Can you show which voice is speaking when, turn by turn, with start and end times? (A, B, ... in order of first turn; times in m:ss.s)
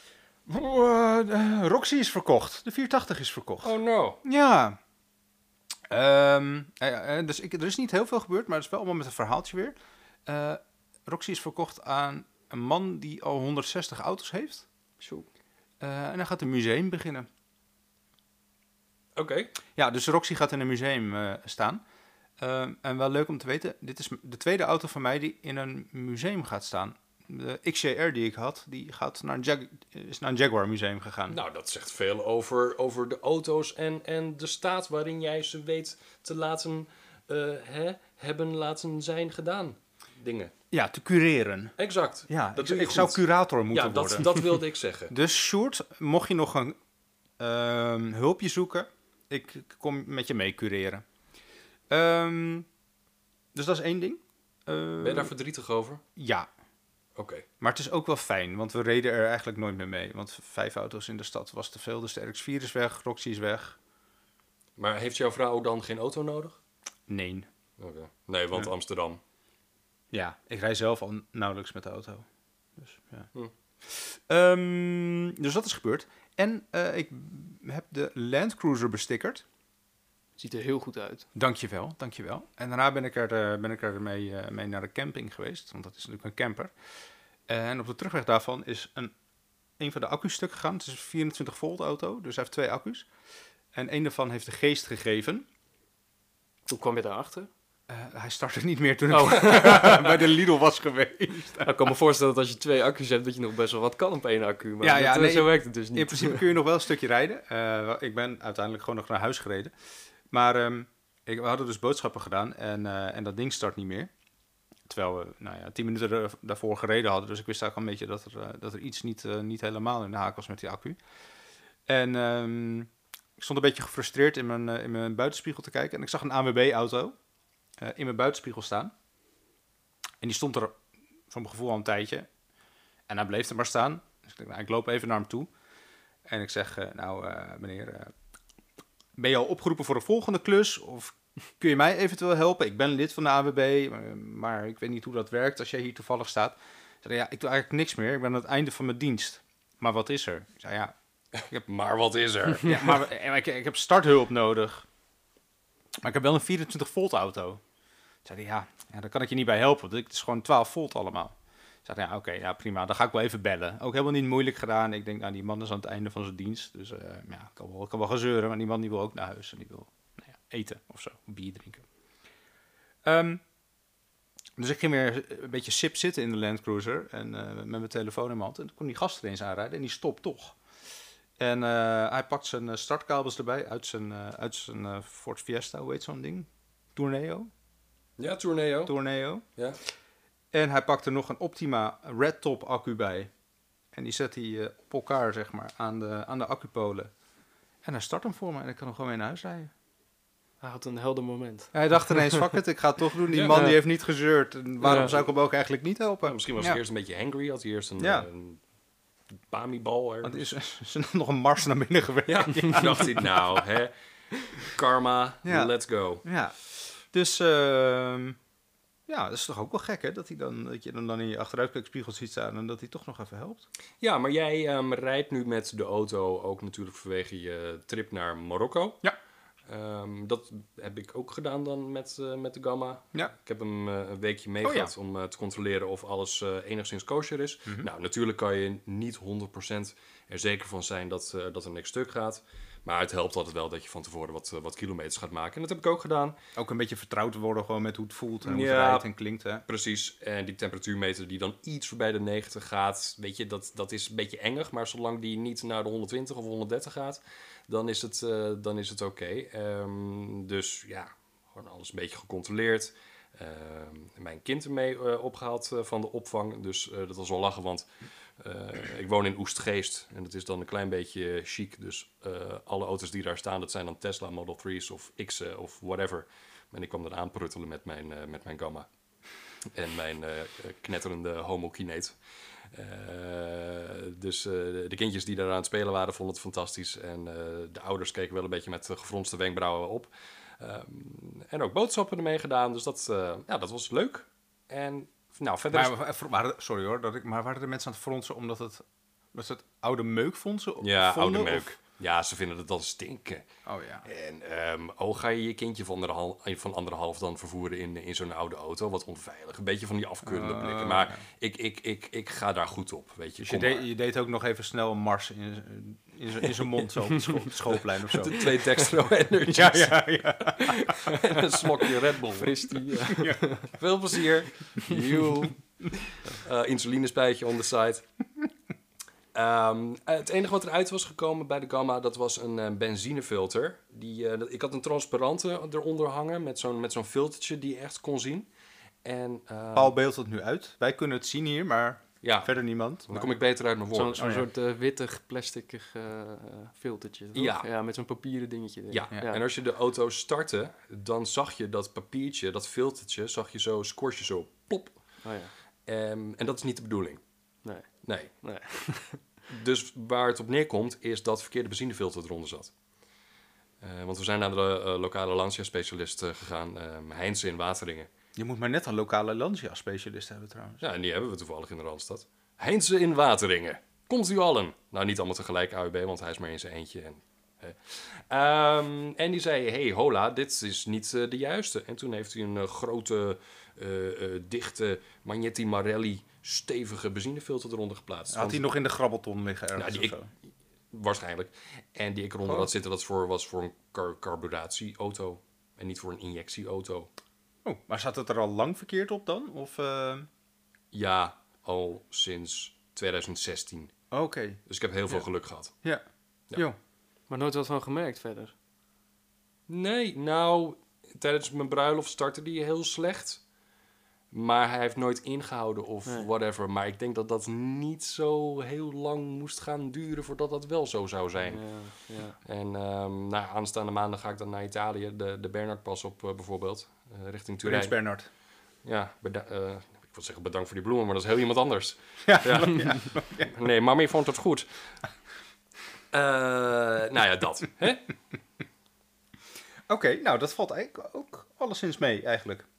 0:00.5-0:04.8 A
0:03.6-0:04.2 B
0:05.9-0:14.6 A
0:15.0-0:15.3 C
0:15.8-0:17.3 A
0:19.2-0:19.5 B
0:19.8-0:21.8 A
0:22.4-0:31.4 A
0:31.3-0:40.5 B
0:40.7-0:41.8 A
0:41.8-0:45.1 B
0:42.3-0:44.4 A
0:45.1-0:46.8 A
0:47.4-0:51.0 A
0:51.9-0:52.7 A
0:53.5-0:55.3 A
0:55.0-0:56.0 B
0:56.2-0:56.5 A
0:57.2-0:57.4 B
0:57.6-1:03.8 A
1:04.8-1:06.6 B
1:07.1-1:07.4 A
1:07.8-1:09.2 B
1:10.1-1:12.2 A
1:12.8-1:13.3 A
1:13.8-1:19.4 A
1:20.4-1:21.2 C
1:21.3-1:26.7 A
1:27.5-1:29.1 A
1:29.8-1:33.1 A
1:33.7-1:35.5 A
1:36.7-1:37.5 C
1:37.9-1:41.7 A
1:39.1-1:40.2 C
1:41.6-1:46.4 C
1:44.8-1:49.7 A
1:50.3-1:54.1 A
1:54.9-2:01.0 A
2:01.9-2:07.1 A
2:07.8-2:08.9 A
2:10.2-2:10.8 A
2:11.3-2:12.3 A
2:13.1-2:15.5 A
2:16.3-2:18.1 A
2:19.2-2:30.9 A
2:31.4-2:33.0 B
2:32.6-2:34.8 A
2:36.0-2:37.6 A
2:38.2-2:51.8 A
2:53.0-2:53.4 A
2:54.6-3:00.5 A
3:01.4-3:07.5 A
3:08.2-3:09.0 B
3:08.8-3:09.4 A
3:10.5-3:13.3 A
3:13.9-3:17.1 A
3:17.8-3:19.7 A
3:20.6-3:22.4 C
3:21.7-3:26.8 A
3:23.3-3:23.7 B
3:23.4-3:23.8 C
3:24.8-3:25.1 C
3:24.9-3:25.2 B
3:26.2-3:28.6 B
3:28.0-3:28.3 A
3:29.5-3:30.5 B
3:30.2-3:33.4 A
3:32.2-3:33.9 B
3:34.6-3:36.2 B
3:35.4-3:35.7 A
3:36.2-3:36.6 A
3:37.1-3:38.4 A
3:39.1-3:43.6 A
3:44.0-3:49.0 B
3:49.6-4:06.4 B
3:54.6-3:54.9 A
4:06.6-4:09.6 A
4:08.4-4:09.1 B
4:09.7-4:27.9 B
4:28.4-4:38.9 B
4:39.7-4:42.1 B
4:42.7-4:56.0 B
4:55.7-4:58.8 A
4:59.3-5:01.7 A
5:00.8-5:03.4 B
5:03.7-5:04.0 A
5:04.0-5:13.9 B
5:10.2-5:11.2 A
5:13.4-5:18.6 A
5:16.6-5:16.9 B
5:17.6-5:22.5 B
5:19.4-5:20.8 A
5:22.4-5:23.7 C
5:23.8-5:25.6 B
5:26.3-5:28.0 B
5:29.3-5:38.5 B
5:39.0-5:39.9 B
5:39.7-5:43.3 A
5:42.2-5:42.5 B
5:43.1-5:44.4 B
5:43.9-5:49.4 C
5:44.2-5:44.4 A
5:47.3-5:47.6 B
5:48.9-5:55.0 B
5:55.2-5:55.5 C
5:55.9-5:57.2 B
5:58.0-5:58.3 B
5:58.4-5:59.2 C
5:59.5-6:02.7 B
6:03.8-6:08.1 B
6:08.4-6:10.8 A
6:10.8-6:28.6 B
6:28.3-6:30.3 A
6:29.8-6:30.1 B
6:30.9-6:37.1 B
6:32.4-6:32.7 A
6:37.6-6:40.3 A
6:40.9-6:43.9 B
6:44.1-6:44.6 A
6:44.7-6:45.8 B
6:47.3-6:48.5 C
6:49.7-6:53.4 B
6:54.3-7:01.6 B
7:01.4-7:02.4 C
7:02.4-7:08.0 B
7:07.6-7:08.3 A
7:08.8-7:14.7 B
7:12.2-7:13.5 A
7:16.1-7:18.1 B
7:19.9-7:22.6 A